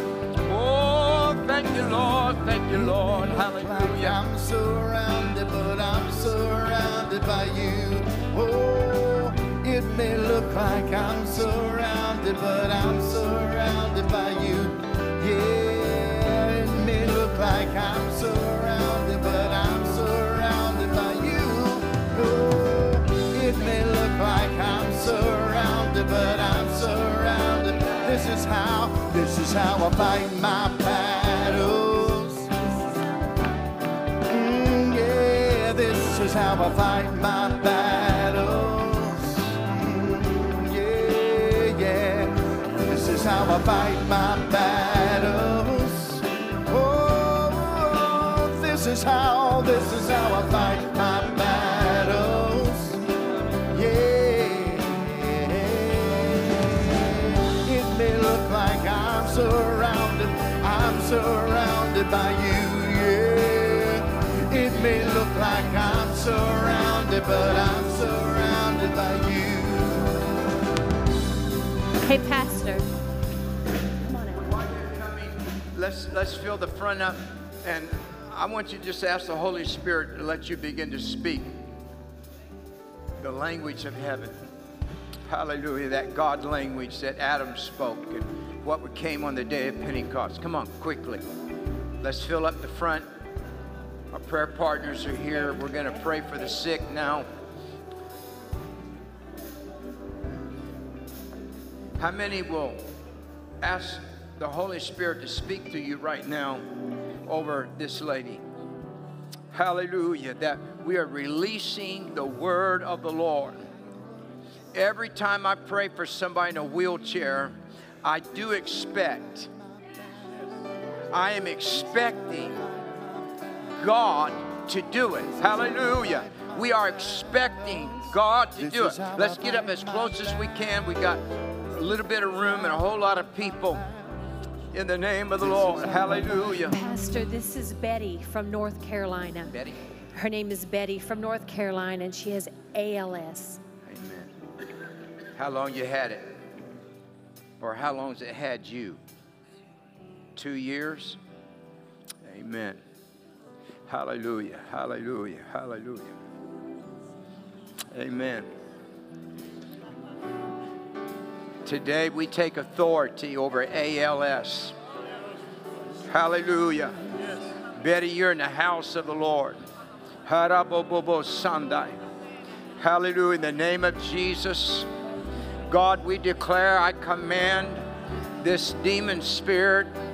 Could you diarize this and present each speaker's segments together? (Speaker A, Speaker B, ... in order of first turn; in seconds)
Speaker A: 0.4-4.2, 74.4-81.5, 83.2-84.4, 85.3-91.2, 92.0-93.1, 94.1-97.3, 102.0-102.8, 103.6-106.7, 107.2-108.4, 109.5-113.6, 114.7-119.5, 121.1-122.6, 123.8-133.9, 134.7-136.8, 139.5-139.9, 143.9-144.3, 145.4-146.4, 147.6-149.0, 150.4-151.2, 152.2-152.8, 153.9-156.2, 157.9-158.5, 161.7-164.8, 166.1-167.0, 167.8-169.6, 170.2-172.0, 172.8-174.9, 175.7-177.8, 178.4-179.9
Speaker B: 2.7-32.5, 34.2-53.0, 53.7-70.3, 125.4-126.6, 127.8-130.3, 135.5-136.5
Speaker C: 72.0-72.9, 74.0-74.5, 136.6-139.6, 140.1-143.6